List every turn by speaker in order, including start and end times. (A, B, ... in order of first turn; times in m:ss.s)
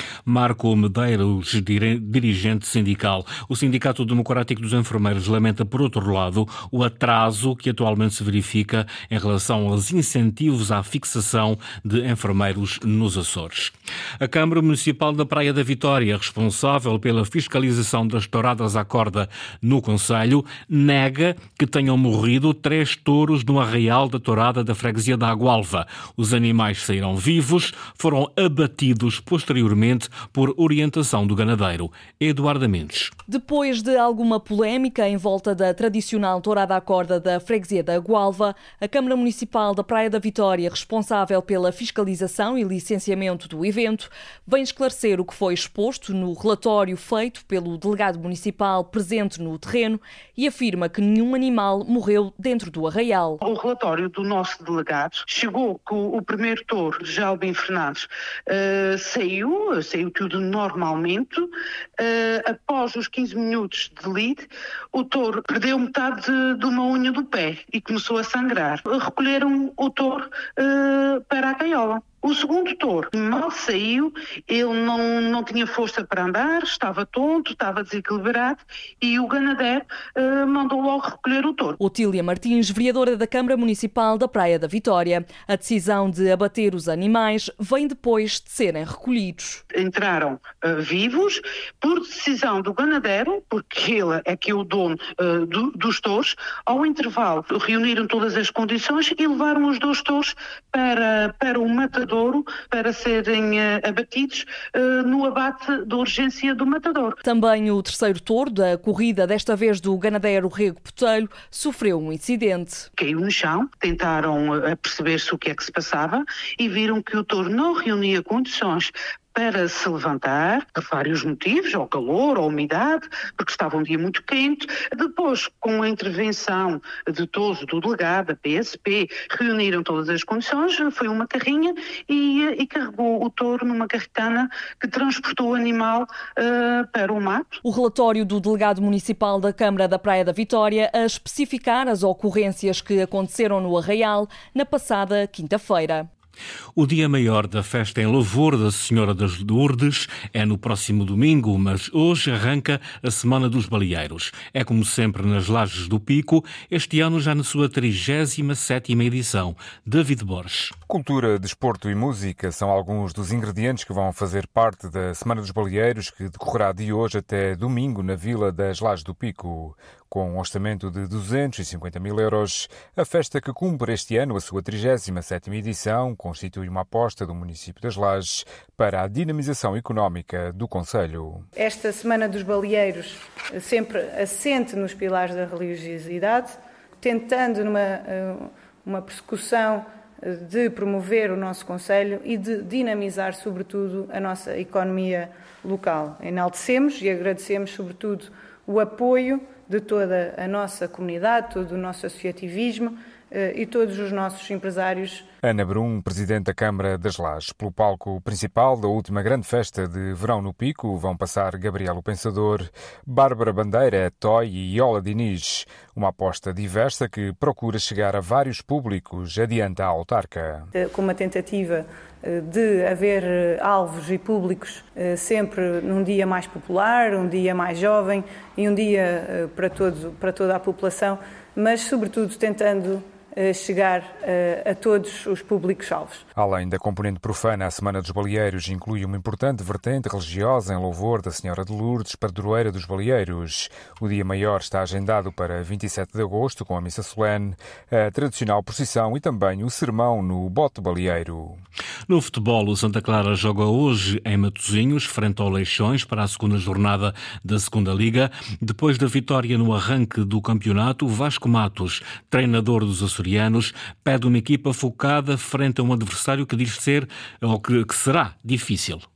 0:00.2-0:33.1 A
0:33.3-0:53.4 B
0:53.4-1:21.8 C
1:21.8-1:29.6 B
1:29.7-1:47.2 C
1:47.2-1:52.9 B
1:53.0-2:17.6 C
2:17.6-2:26.1 B
2:26.8-2:40.7 A
2:40.9-3:01.4 D
3:01.6-3:25.2 E
3:25.4-3:40.7 D
3:40.7-3:56.2 E
3:56.3-4:11.6 D
4:12.1-4:29.0 A